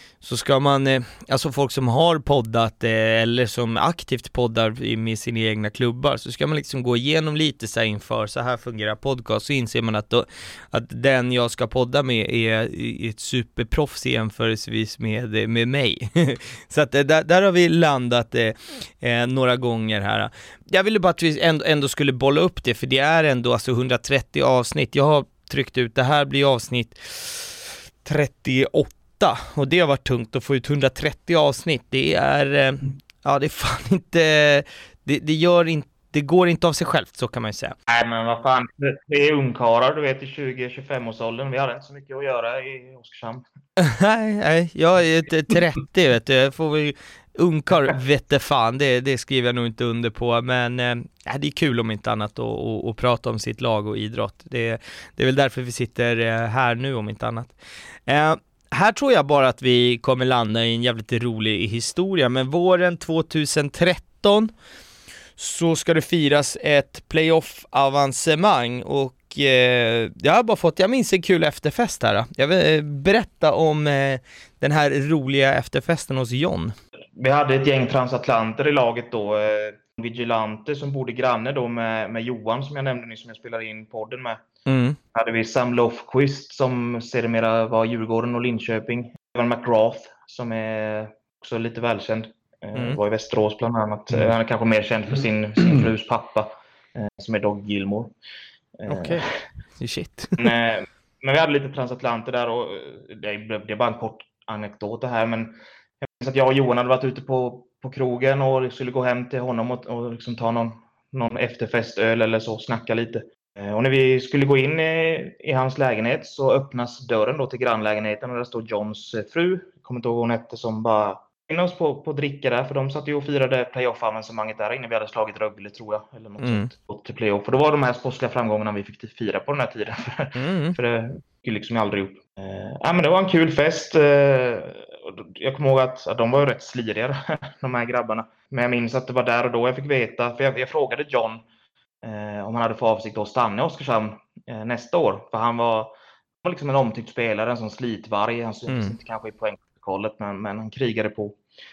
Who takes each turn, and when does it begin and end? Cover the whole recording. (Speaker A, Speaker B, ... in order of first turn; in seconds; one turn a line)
Speaker A: 0.2-37.7
Speaker B: 37.9-43.4
Speaker A: 43.8-64.5
Speaker A: 65.4-76.7
Speaker B: 77.2-84.4
Speaker A: 84.7-85.0
Speaker B: 85.1-98.1
Speaker A: 92.7-93.0
Speaker B: 98.8-99.4
Speaker A: 98.9-100.5
Speaker B: 100.4-141.4
Speaker A: 126.4-126.7
Speaker A: 130.3-130.8
Speaker B: 142.0-151.4
Speaker A: 148.7-148.9